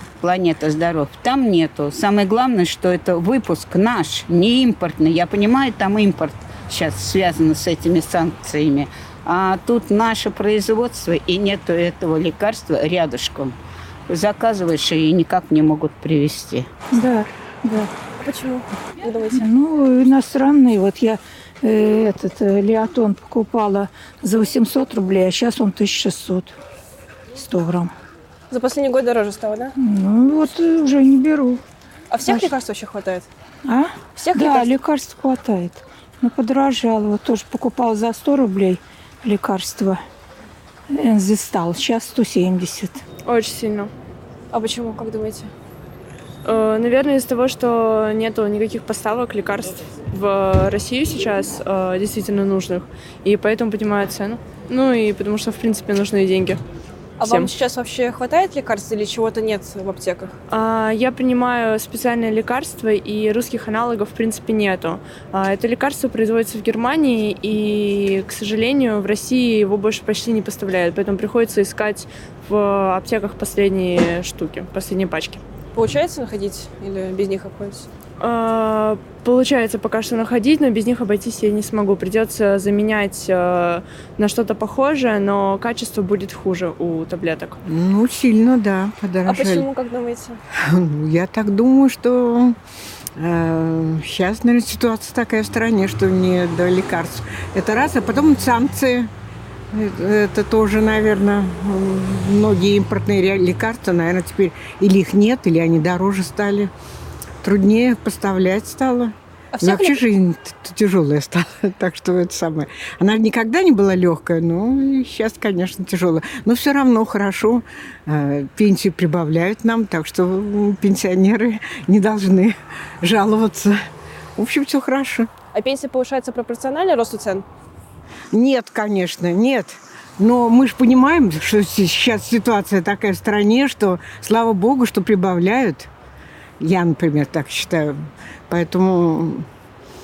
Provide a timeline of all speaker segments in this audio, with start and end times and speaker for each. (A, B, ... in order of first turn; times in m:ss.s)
0:00.2-0:13.5 A
0:14.1-0:16.7 A
0:16.9-0:17.9 B
0:18.2-0:19.4 C
0:19.3-0:26.5 B
0:27.3-0:27.9 B
0:28.5-0:29.7 C
0:29.8-0:31.6 B
0:32.1-0:33.3 C
0:32.2-0:32.5 B
0:33.6-0:40.0 B
0:34.2-0:34.7 C
0:40.9-0:43.0 B
0:43.2-0:43.9 D
0:44.5-0:45.5 C
0:46.4-0:56.6 D
0:57.2-1:00.4 C
0:57.2-0:57.5 D
1:00.5-1:15.4 D
1:15.7-1:17.9 C
1:18.2-1:27.6 D
1:27.6-1:29.7 E
1:29.2-1:30.4 C
1:30.6-1:32.6 E
1:33.2-1:39.1 E
1:39.7-1:46.7 E
1:47.4-2:03.8 E
1:49.5-1:50.0 C
2:04.4-2:05.3 E
2:05.5-2:07.4 C
2:08.3-2:15.9 E
2:16.6-2:17.9 E
2:18.5-2:19.4 E